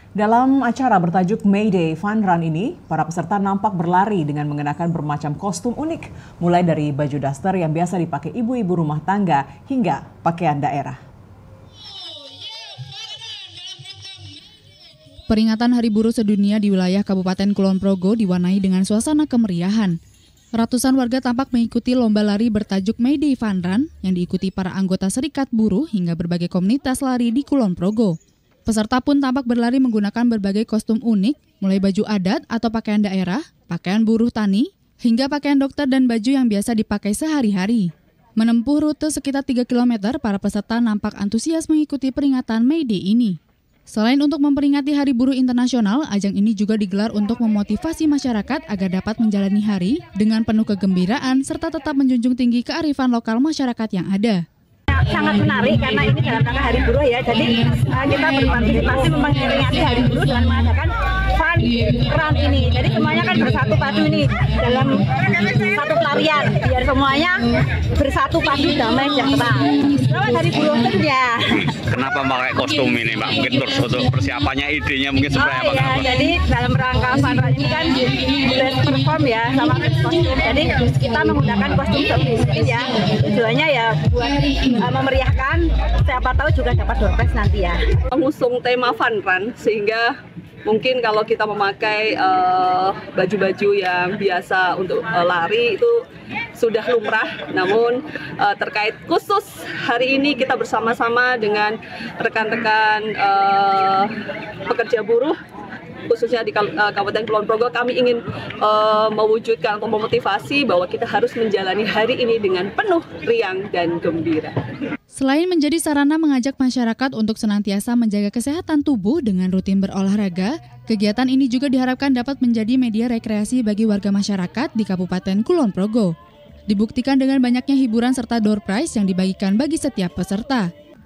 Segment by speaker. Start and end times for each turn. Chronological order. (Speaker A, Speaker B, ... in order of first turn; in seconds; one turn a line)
Speaker A: 0.1-11.0
Speaker B: 15.3-19.9
Speaker B: 20.6-43.4
Speaker B: 43.9-54.4
Speaker C: 54.9-67.4
Speaker C: 68.0-71.7
Speaker D: 71.8-76.1
Speaker C: 75.4-87.8
Speaker E: 88.1-90.1
Speaker E: 90.7-96.0
Speaker E: 96.5-104.1
Speaker E: 104.7-105.3
Speaker E: 106.1-114.6
Speaker B: 115.1-126.1
Speaker B: 126.7-130.7